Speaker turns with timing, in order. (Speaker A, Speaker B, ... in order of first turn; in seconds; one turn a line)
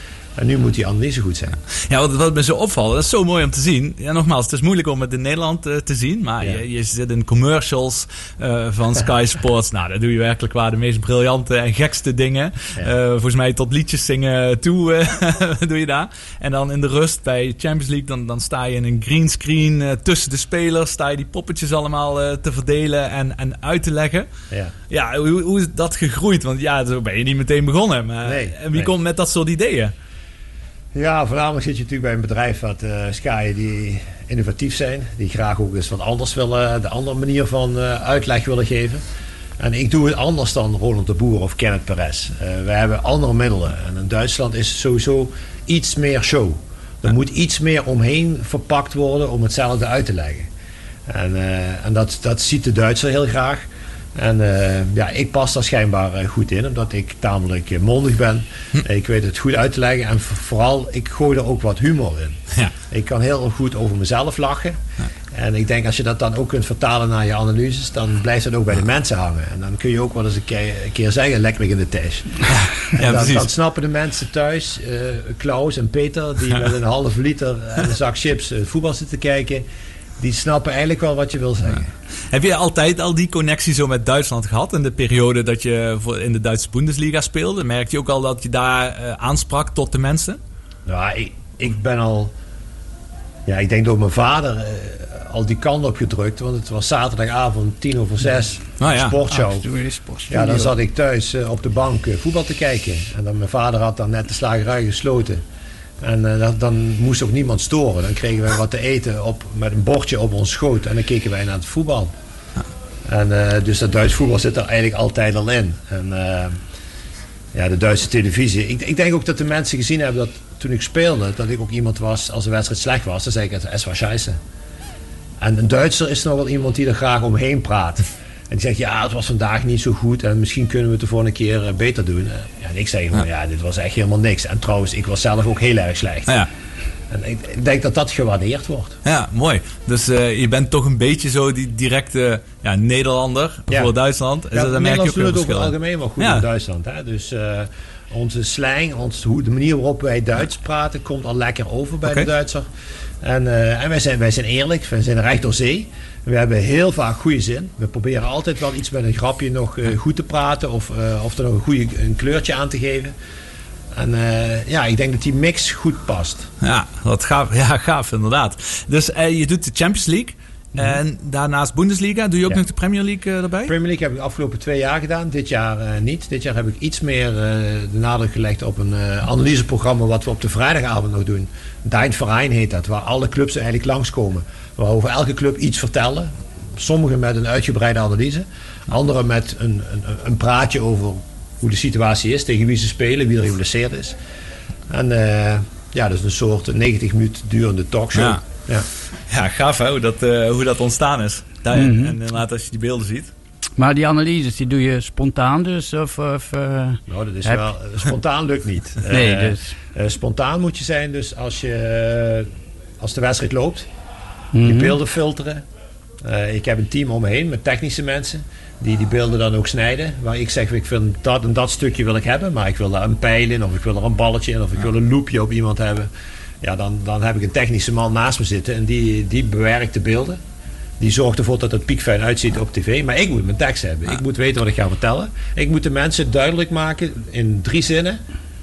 Speaker A: 0.4-1.6
Speaker B: 1.7-24.3
Speaker B: 24.9-29.9
Speaker A: 28.2-28.9
Speaker A: 30.9-39.0
Speaker A: 39.6-50.5
Speaker A: 51.1-64.8
Speaker A: 65.3-79.6
Speaker B: 72.5-73.5
Speaker A: 80.2-81.9
Speaker B: 82.3-90.4
Speaker A: 90.9-92.3
Speaker A: 93.5-99.7
Speaker B: 98.8-99.2
Speaker C: 99.3-100.7
Speaker A: 100.3-105.4
Speaker A: 106.0-112.1
Speaker A: 113.0-116.6
Speaker A: 117.5-124.4
Speaker A: 125.4-136.3
Speaker A: 137.1-139.0
Speaker B: 139.0-146.4
Speaker A: 144.5-152.7
Speaker A: 153.2-163.1
Speaker A: 163.9-166.5
Speaker B: 166.6-173.7
Speaker A: 173.7-194.2
Speaker A: 194.9-198.9
Speaker B: 198.1-198.4
Speaker B: 199.3-203.3
Speaker C: 201.7-202.2
Speaker C: 203.8-207.6
Speaker A: 207.1-213.9
Speaker C: 209.1-209.7
Speaker C: 214.5-215.0
Speaker A: 214.6-215.6
Speaker A: 216.2-226.1
Speaker A: 226.6-230.4
Speaker A: 231.0-238.2